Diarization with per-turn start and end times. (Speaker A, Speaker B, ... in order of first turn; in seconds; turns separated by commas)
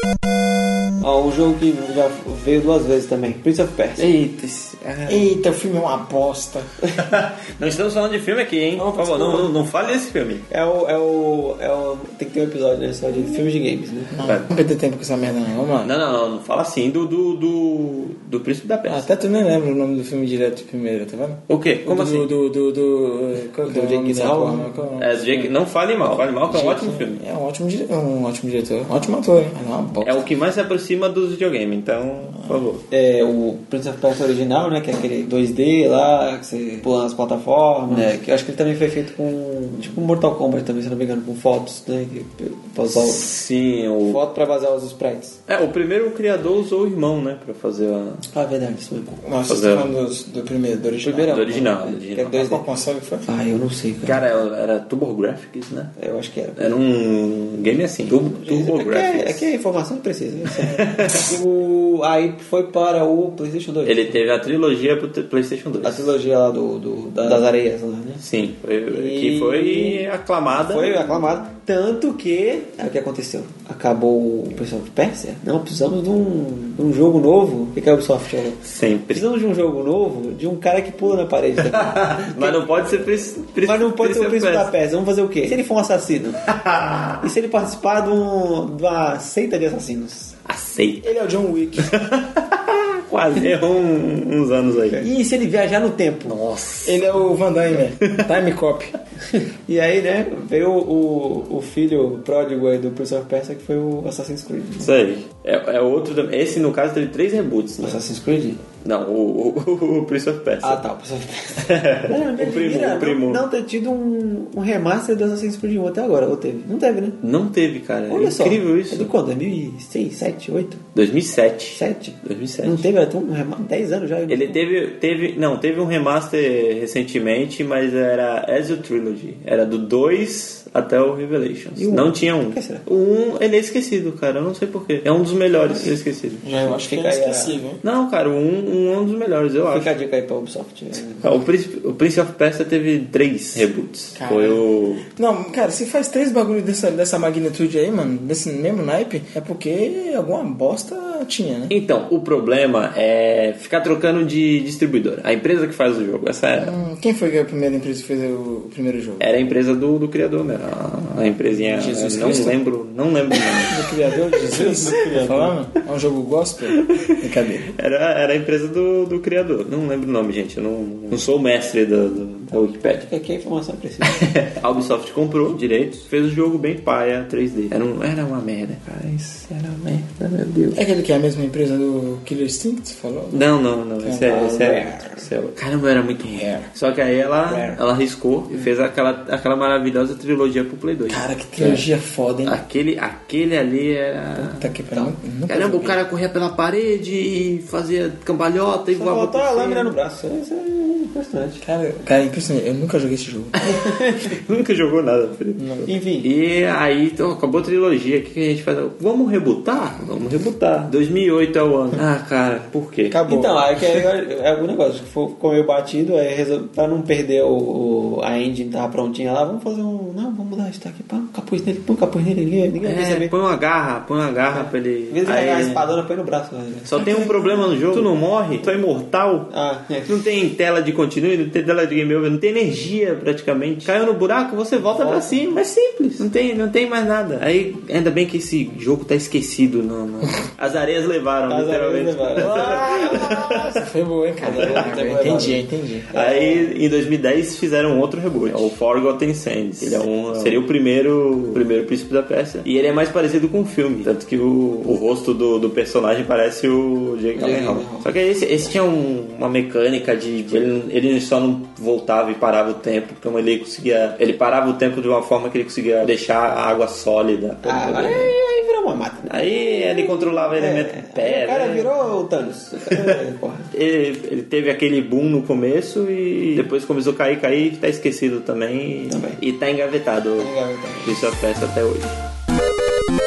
Speaker A: 1.0-4.1, Speaker B: 4.0-5.3, Speaker C: 5.0-6.7, Speaker B: 7.0-10.4, Speaker A: 8.8-9.5, Speaker A: 10.5-14.2, Speaker C: 14.1-15.9, Speaker B: 14.2-14.5, Speaker B: 15.8-19.1, Speaker C: 18.9-25.5, Speaker B: 21.5-22.3, Speaker A: 23.6-24.8, Speaker B: 25.0-27.2, Speaker C: 26.5-30.3, Speaker B: 30.0-32.8, Speaker A: 32.9-43.3, Speaker B: 42.9-44.2, Speaker A: 44.0-45.4, Speaker B: 45.5-48.2, Speaker A: 48.3-49.2, Speaker C: 49.2-51.6, Speaker B: 49.5-49.9, Speaker B: 51.0-52.6, Speaker A: 51.3-52.6, Speaker C: 52.3-53.2, Speaker A: 53.2-54.2, Speaker B: 54.0-55.9, Speaker A: 56.0-56.8, Speaker B: 56.6-59.5, Speaker A: 58.1-64.2, Speaker B: 60.6-61.3, Speaker B: 63.8-66.1, Speaker A: 65.8-68.2, Speaker B: 68.2-71.0, Speaker A: 68.9-82.6, Speaker B: 78.6-79.2, Speaker B: 81.6-84.7, Speaker A: 83.6-86.4, Speaker B: 86.5-87.2, Speaker A: 87.2-90.3, Speaker B: 90.5-91.1, Speaker C: 91.0-92.0, Speaker B: 91.8-95.0, Speaker A: 94.9-96.4, Speaker B: 96.2-97.2, Speaker C: 96.8-98.9, Speaker B: 98.0-98.3, Speaker A: 99.3-105.0, Speaker B: 104.8-108.0, Speaker A: 107.8-108.6, Speaker B: 108.8-110.8, Speaker A: 110.6-117.2, Speaker B: 111.6-113.4, Speaker B: 117.2-119.1, Speaker A: 118.1-120.8, Speaker B: 120.9-122.9, Speaker A: 121.7-124.6, Speaker B: 124.3-136.5, Speaker A: 131.8-132.8, Speaker C: 136.4-137.8, Speaker A: 136.6-137.6, Speaker B: 137.8-139.9, Speaker A: 139.7-141.2, Speaker B: 141.2-145.1, Speaker C: 144.1-151.7, Speaker B: 151.7-156.8, Speaker C: 156.6-159.3, Speaker B: 159.2-163.8, Speaker C: 161.6-162.6, Speaker C: 163.7-167.7, Speaker A: 164.3-165.5, Speaker B: 164.5-164.9, Speaker B: 166.7-173.1, Speaker A: 173.1-174.3, Speaker B: 174.0-178.8, Speaker A: 178.8-180.5, Speaker B: 180.1-180.8, Speaker C: 180.7-183.5, Speaker B: 183.3-191.8, Speaker C: 184.0-184.4, Speaker A: 184.2-185.2, Speaker C: 186.2-186.7, Speaker A: 187.4-187.8, Speaker C: 191.1-192.6, Speaker B: 192.4-194.7, Speaker C: 194.4-196.0, Speaker B: 195.5-199.9, Speaker A: 198.9-201.6, Speaker C: 201.6-203.6, Speaker B: 203.6-213.2, Speaker A: 203.7-204.4, Speaker C: 205.6-205.9, Speaker A: 205.8-206.3, Speaker C: 213.1-213.6, Speaker A: 213.2-223.3, Speaker B: 222.8-225.9, Speaker A: 224.5-228.1, Speaker B: 226.8-229.5, Speaker A: 229.5-230.1, Speaker B: 230.0-243.8, Speaker A: 234.8-235.6, Speaker A: 241.5-243.3, Speaker C: 242.4-246.1, Speaker A: 244.4-246.8, Speaker B: 244.5-245.3, Speaker B: 246.1-268.3, Speaker A: 250.3-250.6, Speaker A: 257.3-258.1, Speaker A: 267.6-273.7, Speaker B: 269.2-271.9, Speaker B: 272.9-280.5, Speaker A: 279.1-279.4, Speaker A: 280.4-281.2, Speaker B: 281.0-282.2